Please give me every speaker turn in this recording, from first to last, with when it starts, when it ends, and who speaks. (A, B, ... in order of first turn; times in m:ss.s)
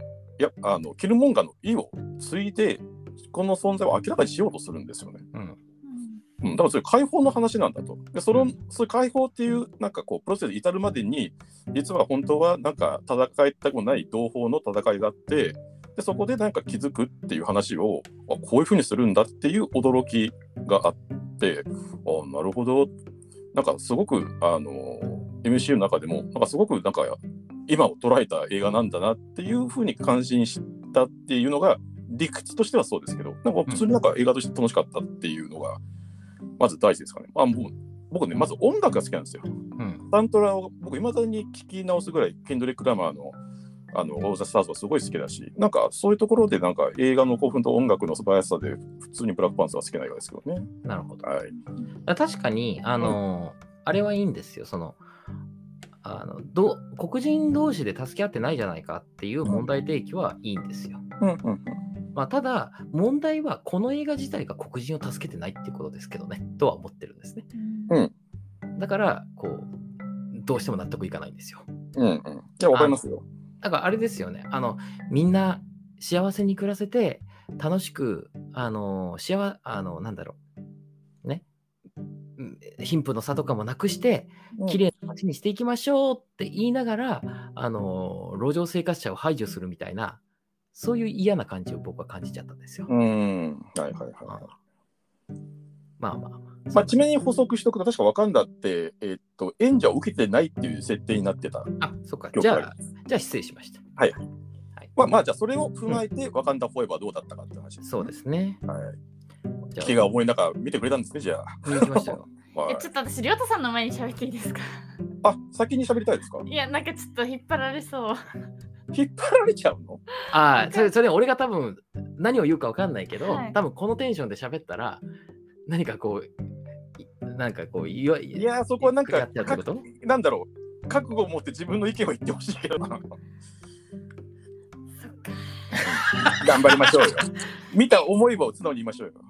0:00.4-0:05.2 A
0:05.8-0:06.2 B
0:06.4-0:22.9 A
0:23.5-0:35.8 A
0:36.6-0:39.5 A
0:39.8-0:40.0 C
0:40.1-0:43.4 A
0:43.9-0:50.7 A
0:50.8-0:51.2 C
0:51.2-0:51.5 A
0:52.0-0:55.0 C
0:56.0-1:01.0 C
1:01.2-1:01.8 A
1:02.1-1:07.5 C
1:07.5-1:08.0 B
1:08.8-1:09.7 C
1:10.3-1:11.7 C
1:12.0-1:13.2 A
1:12.7-1:13.0 C
1:13.6-1:20.4 C
1:22.4-1:30.2 C
1:30.7-1:32.9 C
1:32.9-1:34.5 A
1:36.0-1:37.0 C
1:36.7-1:41.7 A
1:41.8-1:43.8 C
1:42.3-1:42.7 A
1:45.0-1:48.1 A
1:47.8-1:48.6 C
1:48.7-1:48.9 A
1:49.7-1:50.0 C
1:49.8-1:52.8 A
1:51.6-1:52.2 C
1:52.6-1:55.0 B
1:55.2-1:56.4 A
1:56.4-1:58.3 B
1:58.9-2:00.0 A
2:00.3-2:05.0 C
2:00.5-2:00.9 B
2:03.2-2:03.6 B
2:05.6-2:06.3 C
2:07.0-2:09.8 C
2:08.3-2:13.0 A
2:15.0-2:15.7 B
2:15.7-2:17.1 C
2:15.8-2:19.2 A